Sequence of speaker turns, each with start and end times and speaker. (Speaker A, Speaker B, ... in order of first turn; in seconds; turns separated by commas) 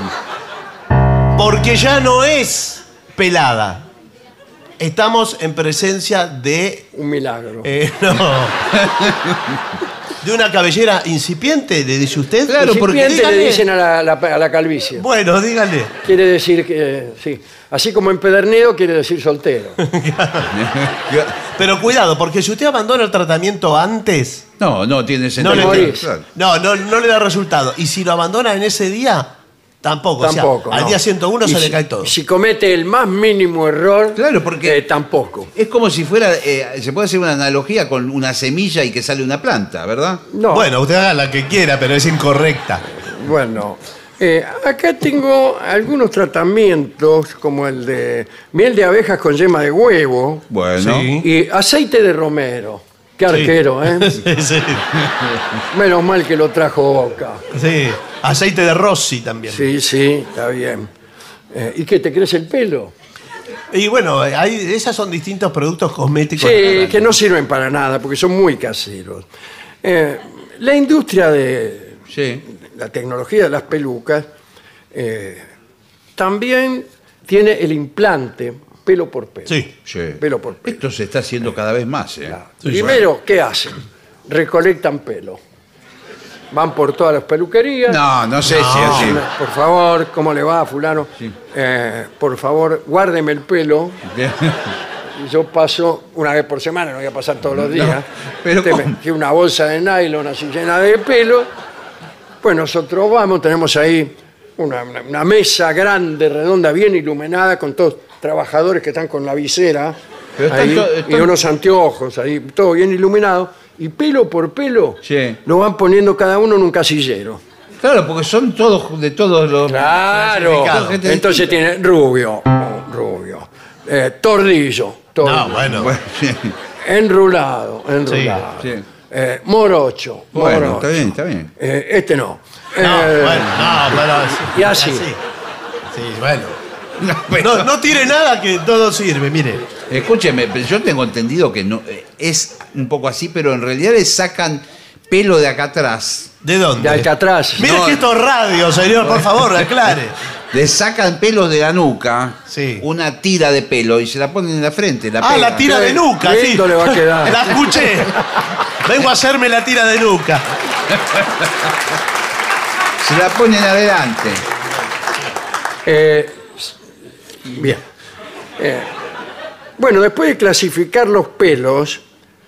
Speaker A: 1.3-3.9, Speaker A: 4.8-6.9, Speaker B: 6.9-7.7, Speaker A: 7.6-8.7, Speaker C: 8.9-9.3, Speaker A: 10.2-13.6, Speaker C: 12.5-13.2, Speaker B: 12.6-15.0, Speaker A: 14.9-16.0, Speaker B: 16.0-19.8, Speaker A: 19.8-20.5, Speaker C: 20.5-21.4, Speaker A: 21.5-24.5, Speaker C: 24.6-26.2, Speaker A: 25.4-32.1, Speaker B: 25.4-26.1, Speaker B: 30.2-35.5, Speaker C: 34.1-34.8, Speaker C: 35.5-40.2, Speaker B: 40.3-40.7, Speaker A: 40.5-42.8, Speaker B: 43.0-50.4, Speaker C: 50.5-51.1, Speaker A: 50.8-51.3, Speaker B: 51.2-54.2, Speaker A: 53.3-54.9, Speaker B: 55.7-57.4, Speaker A: 57.5-59.6, Speaker B: 59.5-60.9, Speaker B: 61.5-62.9, Speaker A: 63.7-67.2, Speaker B: 66.4-69.3, Speaker B: 69.8-74.3, Speaker C: 72.1-72.4, Speaker B: 74.9-75.5, Speaker B: 76.2-79.6, Speaker C: 79.8-83.0, Speaker B: 80.2-80.8, Speaker B: 82.3-85.4, Speaker A: 82.6-83.0, Speaker B: 86.5-88.0, Speaker C: 87.9-89.2, Speaker A: 88.5-89.2, Speaker B: 88.8-94.0, Speaker C: 94.1-94.7, Speaker B: 95.2-98.1, Speaker C: 97.5-99.0, Speaker B: 98.6-101.5, Speaker B: 102.4-110.0, Speaker C: 110.4-111.3, Speaker B: 110.5-117.4, Speaker C: 115.0-115.4, Speaker C: 117.8-121.6, Speaker B: 119.7-125.7, Speaker A: 120.3-121.0, Speaker A: 125.2-125.9, Speaker C: 125.7-126.5, Speaker B: 126.8-135.1, Speaker A: 128.1-128.4, Speaker C: 130.3-131.5, Speaker A: 132.8-135.2, Speaker A: 135.9-136.6, Speaker C: 137.0-137.7, Speaker A: 137.4-139.6, Speaker C: 139.9-146.3, Speaker A: 146.4-150.2, Speaker B: 146.8-147.7, Speaker C: 147.6-148.1, Speaker C: 149.0-149.9, Speaker C: 150.5-155.7, Speaker A: 152.5-152.8, Speaker A: 155.2-158.2, Speaker B: 155.7-157.6, Speaker A: 158.8-160.5, Speaker C: 161.1-161.7, Speaker C: 163.0-164.4, Speaker B: 165.8-166.7, Speaker B: 167.5-167.8, Speaker B: 168.6-168.9, Speaker B: 169.8-172.0